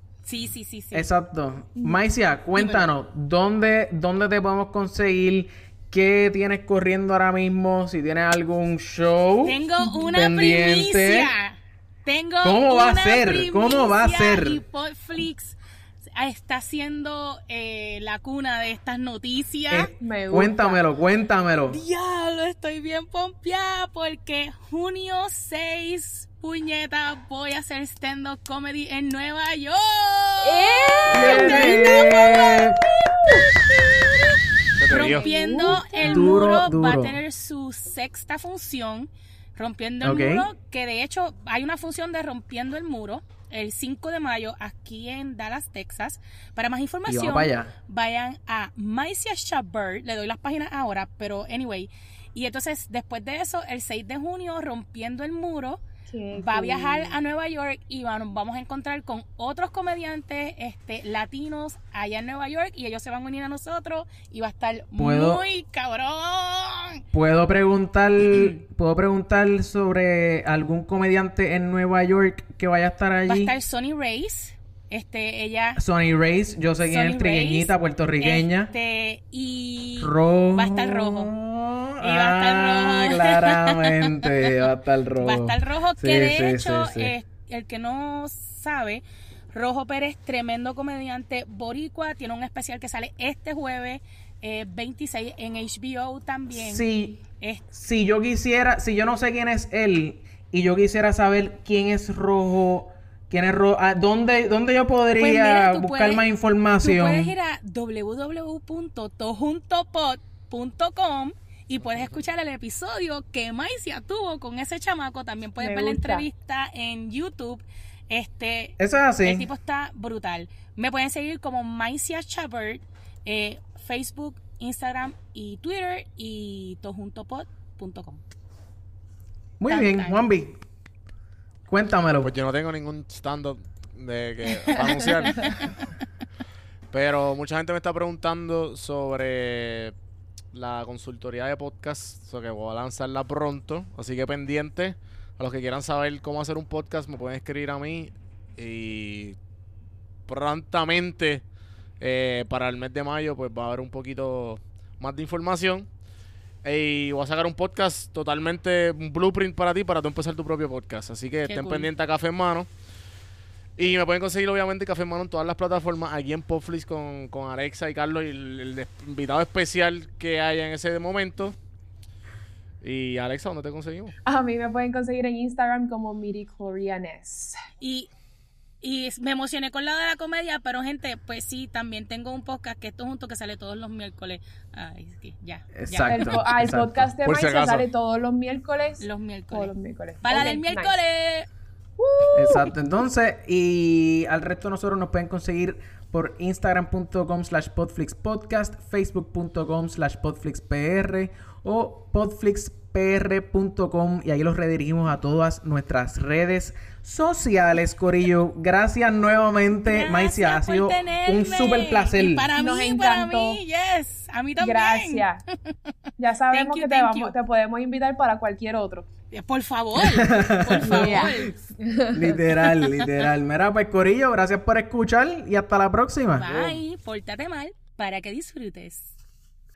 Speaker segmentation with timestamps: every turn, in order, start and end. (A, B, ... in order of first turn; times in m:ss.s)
0:00.2-0:01.1 A
0:00.9-0:11.3 B
0:02.6-0:02.9 A
0:09.4-0:19.9 A
0:09.8-0:10.1 C
0:12.4-0:14.6 B
0:19.7-0:21.8 B
0:20.0-0:20.8 C
0:21.7-0:32.7 A
0:30.4-0:32.5 C
0:31.1-0:32.8 B
0:31.1-0:31.4 D
0:34.8-0:35.2 D
0:34.9-0:55.8 A
0:34.9-0:36.4 C
0:36.0-0:37.2 B
0:40.0-0:40.5 B
0:47.0-0:47.7 B
0:56.1-0:57.2 C
0:56.3-1:07.0 A
1:05.0-1:05.4 B
1:07.1-1:13.5 B
1:13.3-1:15.8 A
1:15.8-1:18.7 B
1:16.8-1:21.4 A
1:20.0-1:27.1 B
1:22.0-1:24.4 A
1:25.2-1:36.8 A
1:36.5-1:47.3 B
1:37.4-1:37.6 A
1:45.2-1:46.2 A
1:46.8-2:08.2 A
1:51.8-1:52.2 D
1:55.6-1:56.3 C
1:58.8-1:59.5 B
2:09.6-2:10.5 B
2:09.7-2:10.2 A
2:11.7-2:12.3 B
2:12.2-2:15.7 D
2:14.7-2:15.1 C
2:16.9-2:19.9 D
2:20.5-2:29.4 D
2:30.3-2:31.4 D
2:32.0-2:35.9 D
2:36.6-2:42.7 D
2:41.5-2:41.9 A
2:43.8-2:51.6 D
2:52.8-2:54.1 D
2:54.2-2:57.6 C
2:57.8-2:58.1 A
2:58.8-3:06.4 A
3:05.8-3:07.1 B
3:06.0-3:11.0 C
3:07.2-3:07.9 D
3:09.0-3:11.5 A
3:12.0-3:12.7 C
3:12.3-3:32.5 B
3:29.9-3:35.8 A
3:32.5-3:33.6 C
3:34.6-3:35.4 C
3:36.2-3:39.0 C
3:36.5-3:37.4 A
3:39.3-3:41.5 A
3:40.0-3:41.4 B
3:40.6-3:42.5 C
3:42.1-3:46.8 B
3:46.3-3:49.1 A